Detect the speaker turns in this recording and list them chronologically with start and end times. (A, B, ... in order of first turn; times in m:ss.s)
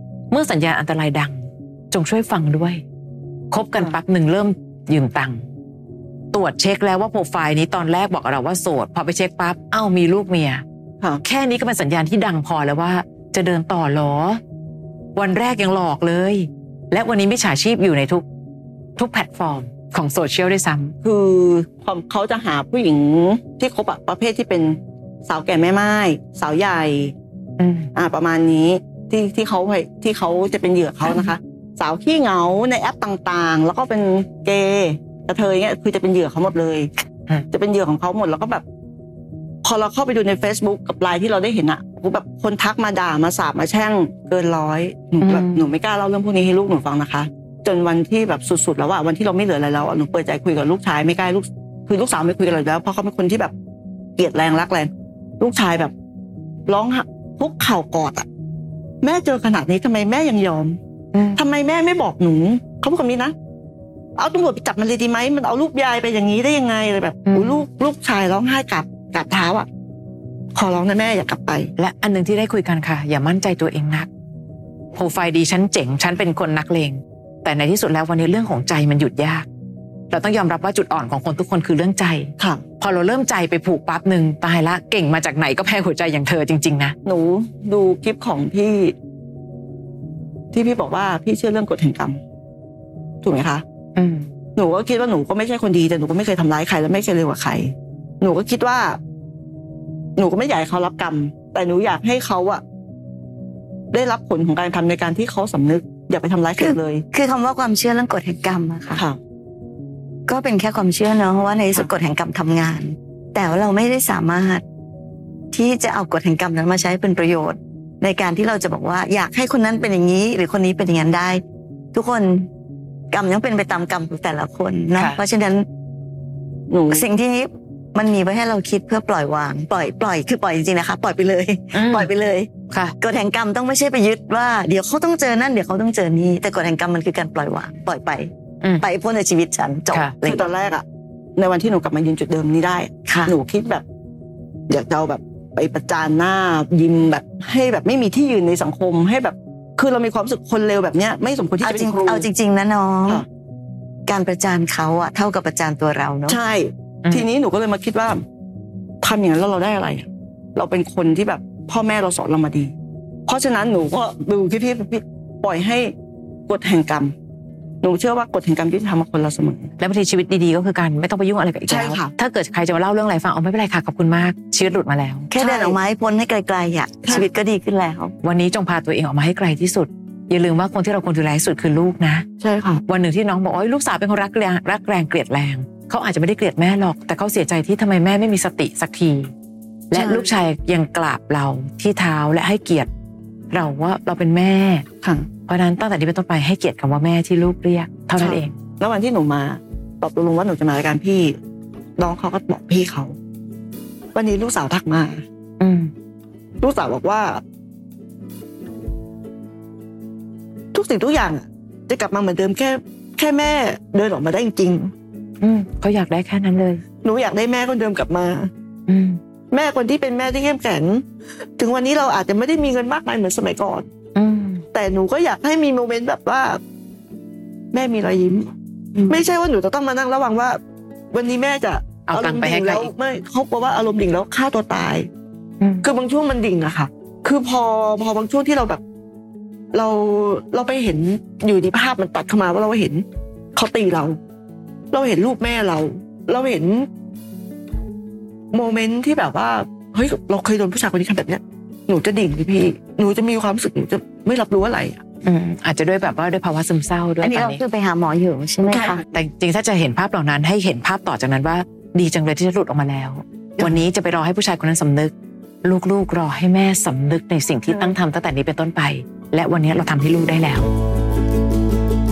0:00.3-0:02.8 A
0:03.5-0:05.4 A
0:06.3-0:10.6 A
0:11.2-0:14.4 A
0:15.1-0:18.2 A
0:19.0-0:20.9 A
0:21.0-0:27.1 B
0:27.6-0:27.9 A
0:27.9-0:36.9 B
0:37.5-0:38.6 B
0:39.6-0:53.5 B
0:45.2-0:45.7 A
0:54.2-0:55.9 B
0:56.7-0:58.2 B
0:59.0-1:00.8 B
1:01.1-1:01.4 A
1:01.4-1:03.3 B
1:04.2-1:09.7 B
1:07.2-1:07.6 A
1:10.5-1:11.7 B
1:11.8-1:14.1 A
1:14.9-1:19.4 A
1:20.1-1:26.9 A
1:27.0-1:28.9 B
1:30.5-1:32.2 B
1:33.2-1:33.6 B
1:34.0-1:34.3 A
1:34.6-1:39.0 B
1:40.2-1:42.6 B
1:43.9-1:47.0 B
1:46.6-1:49.0 C
1:50.3-1:54.6 C
1:55.5-2:01.4 C
2:01.9-2:02.5 C
2:03.1-2:05.6 C
2:06.7-2:07.1 B
2:06.9-2:12.5 C
2:11.7-2:12.1 A
2:12.7-2:12.9 A
2:13.0-2:20.4 C
2:20.2-2:20.8 B
2:21.4-2:23.8 B
2:23.1-2:23.3 C
2:24.7-2:32.3 B
2:31.6-2:33.2 C
2:34.0-2:36.4 C
2:36.3-2:38.2 B
2:39.0-2:42.7 B
2:43.3-2:45.9 B
2:46.5-2:47.1 B
2:47.8-2:49.7 B
2:49.8-2:55.3 A
2:51.7-2:52.1 B
2:55.3-2:58.1 C
2:55.4-2:55.8 B
2:58.2-3:02.2 A
3:02.4-3:02.8 C
3:02.9-3:09.3 A
3:09.9-3:12.9 A
3:09.9-3:10.3 B
3:13.5-3:14.8 A
3:15.0-3:15.3 B
3:15.5-3:18.5 A
3:18.2-3:21.4 B
3:22.0-3:23.1 B
3:24.1-3:25.2 B
3:25.6-3:25.9 A
3:26.6-3:27.4 B
3:30.7-3:34.9 B
3:35.4-3:36.8 A
3:37.0-3:38.5 B
3:38.9-3:39.2 A
3:39.5-3:41.0 B
3:41.6-3:43.8 B
3:44.1-3:44.6 A
3:44.7-3:46.6 B
3:47.7-3:48.5 B
3:49.1-3:50.6 B
3:51.1-3:55.1 B
3:52.1-3:52.9 A
3:55.6-3:55.9 A
3:55.8-3:58.8 B
3:59.7-4:03.0 B
4:03.5-4:04.2 B
4:04.9-4:06.9 B
4:08.5-4:15.0 B
4:15.2-4:17.6 A
4:17.2-4:19.0 C
4:18.7-4:19.0 B
4:19.1-4:25.1 A
4:25.6-4:30.7 A